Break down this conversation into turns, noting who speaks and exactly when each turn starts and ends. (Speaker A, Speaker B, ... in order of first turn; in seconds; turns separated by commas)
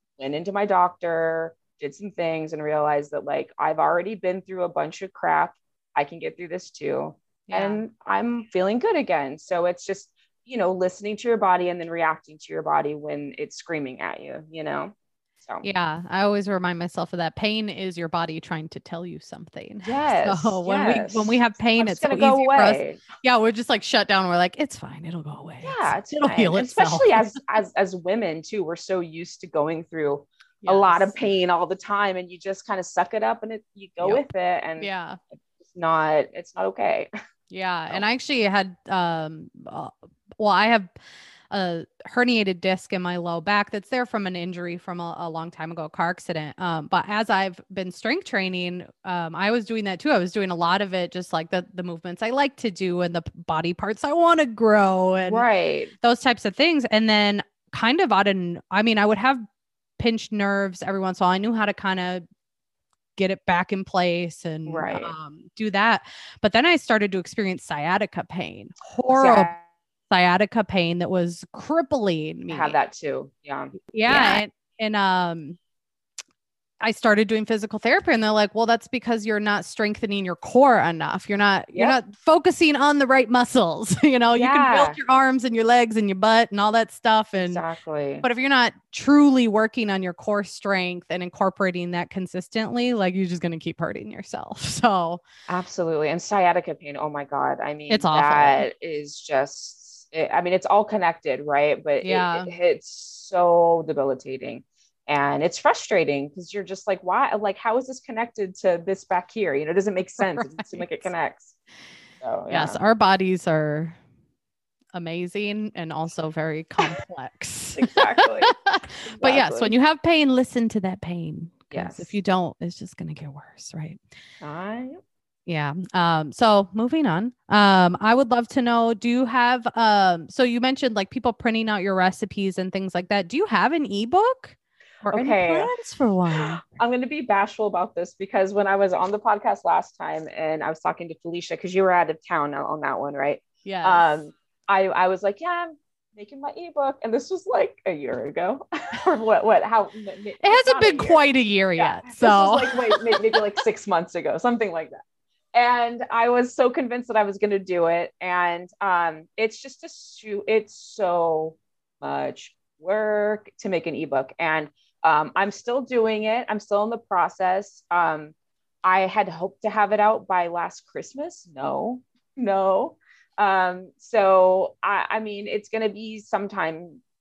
Speaker A: 0.2-15.6, Speaker B: 7.5-7.8, Speaker B: 15.6-27.3, Speaker A: 19.8-23.0, Speaker A: 25.6-34.9, Speaker B: 30.6-31.1, Speaker B: 34.8-35.2, Speaker A: 35.6-37.1, Speaker B: 37.5-40.9, Speaker B: 41.5-55.5, Speaker A: 55.2-55.9, Speaker B: 56.0-59.4, Speaker B: 60.0-62.2, Speaker B: 63.1-69.5, Speaker A: 64.7-65.1, Speaker A: 69.1-69.6, Speaker B: 70.1-72.8, Speaker A: 72.5-74.4, Speaker B: 73.9-75.6, Speaker B: 76.8-87.6, Speaker A: 84.3-85.0, Speaker A: 87.4-88.2, Speaker B: 88.2-95.2, Speaker A: 95.5-111.5, Speaker B: 97.9-98.6, Speaker B: 102.0-102.5, Speaker B: 110.2-111.1, Speaker A: 112.2-112.8, Speaker B: 112.5-114.0, Speaker B: 114.9-124.0, Speaker A: 117.8-118.5, Speaker A: 119.1-119.7, Speaker A: 121.7-122.1, Speaker A: 124.4-125.0, Speaker B: 125.5-136.6, Speaker A: 135.1-135.7, Speaker A: 136.3-151.2, Speaker B: 143.6-144.1, Speaker B: 150.4-153.3, Speaker A: 151.8-155.0, Speaker A: 155.5-177.0